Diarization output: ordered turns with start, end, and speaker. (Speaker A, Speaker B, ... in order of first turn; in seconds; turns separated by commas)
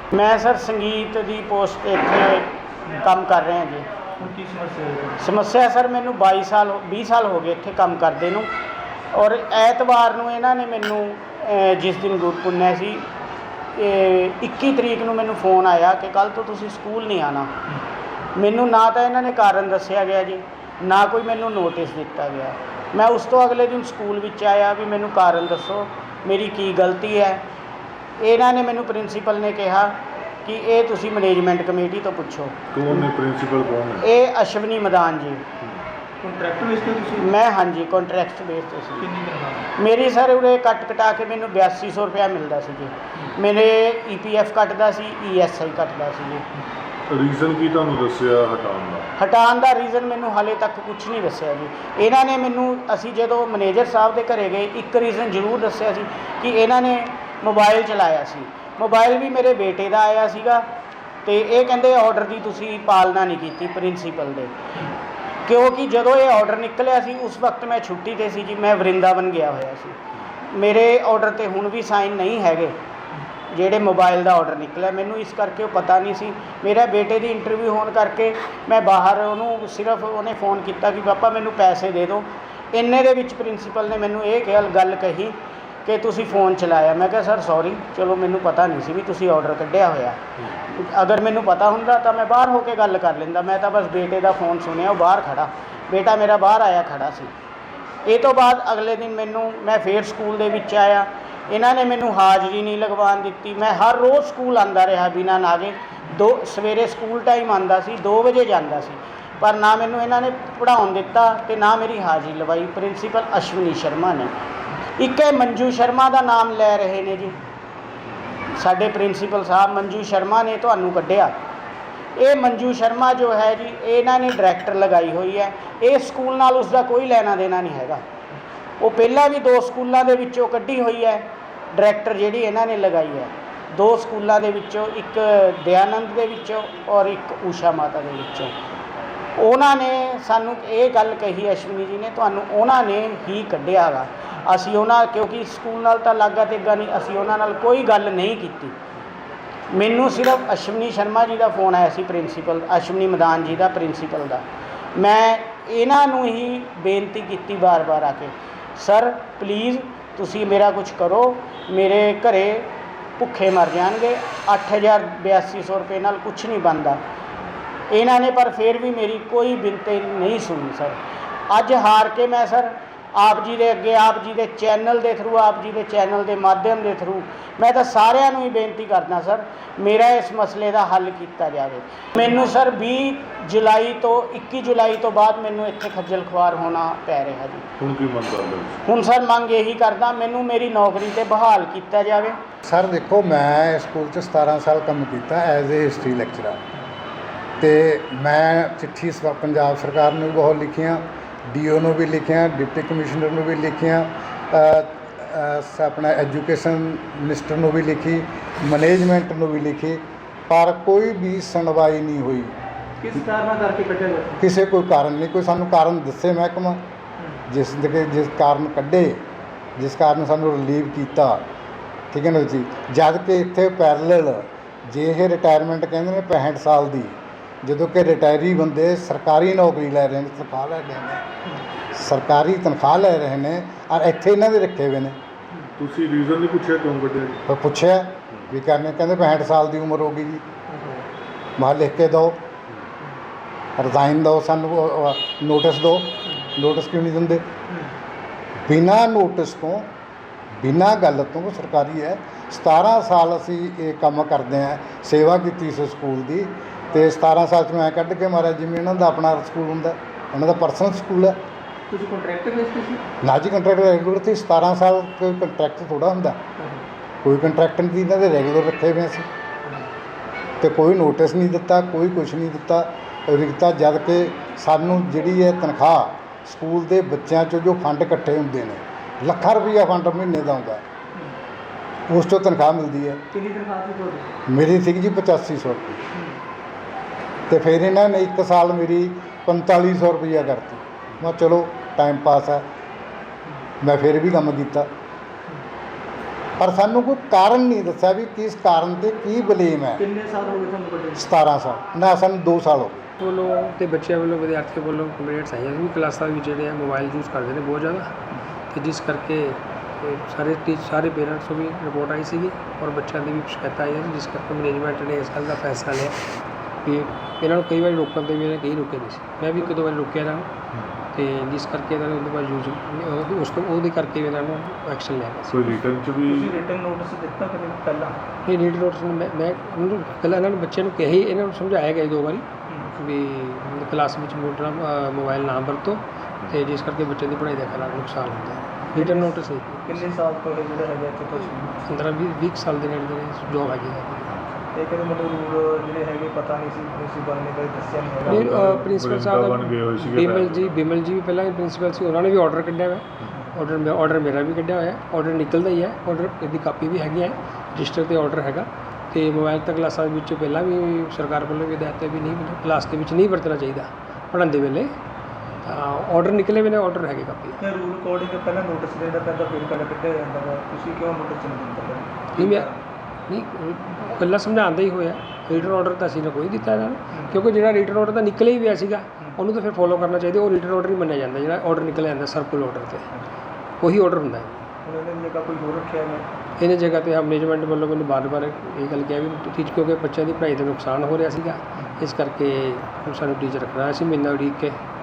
Speaker A: 0.1-3.9, Speaker B: 4.2-5.2, Speaker A: 5.2-8.5, Speaker A: 9.1-13.1, Speaker A: 13.8-17.5, Speaker A: 18.4-27.4, Speaker A: 28.2-29.9, Speaker A: 30.4-32.5, Speaker C: 32.7-34.1, Speaker A: 34.0-35.4, Speaker B: 36.2-37.3, Speaker A: 37.2-39.1, Speaker B: 39.0-39.7, Speaker A: 39.8-46.5, Speaker C: 47.1-49.1, Speaker A: 49.2-60.6, Speaker A: 61.2-64.5, Speaker A: 65.5-70.0, Speaker A: 70.5-72.8, Speaker A: 73.5-97.3, Speaker A: 98.1-114.3, Speaker A: 115.0-117.4, Speaker A: 118.6-121.3, Speaker A: 122.2-128.0, Speaker A: 128.8-138.5, Speaker A: 139.4-148.8, Speaker A: 149.7-167.0, Speaker A: 167.9-171.0, Speaker A: 171.5-187.7, Speaker C: 187.8-188.8, Speaker A: 188.8-192.4, Speaker D: 192.6-196.6, Speaker D: 197.6-212.5, Speaker B: 213.0-214.4, Speaker D: 214.4-216.9, Speaker D: 217.5-219.2, Speaker D: 219.8-221.4, Speaker D: 222.1-231.2, Speaker D: 231.9-235.2, Speaker C: 235.8-237.4, Speaker D: 237.5-240.4, Speaker D: 241.6-242.4, Speaker D: 243.8-247.4, Speaker D: 248.7-249.9, Speaker D: 250.6-261.4, Speaker B: 261.9-263.0, Speaker D: 263.2-266.4, Speaker D: 267.2-269.3, Speaker D: 270.6-280.8, Speaker D: 282.1-283.2, Speaker B: 283.3-284.3, Speaker D: 284.5-286.0, Speaker D: 287.5-292.6, Speaker D: 293.8-294.9, Speaker D: 296.6-300.0, Speaker B: 300.0-301.2, Speaker D: 301.1-303.1, Speaker E: 303.2-308.1, Speaker E: 308.7-316.2, Speaker E: 316.8-320.5, Speaker E: 321.1-325.8, Speaker C: 325.5-326.6, Speaker B: 326.3-328.2, Speaker E: 328.4-340.1, Speaker B: 339.0-339.3, Speaker B: 339.9-341.7, Speaker E: 341.4-344.3, Speaker B: 344.8-348.5, Speaker E: 348.2-364.9, Speaker C: 348.3-350.8, Speaker E: 365.6-367.6, Speaker B: 367.6-372.7, Speaker E: 372.4-372.7, Speaker E: 373.3-383.1, Speaker E: 383.8-384.6, Speaker B: 384.9-386.2, Speaker E: 386.6-394.8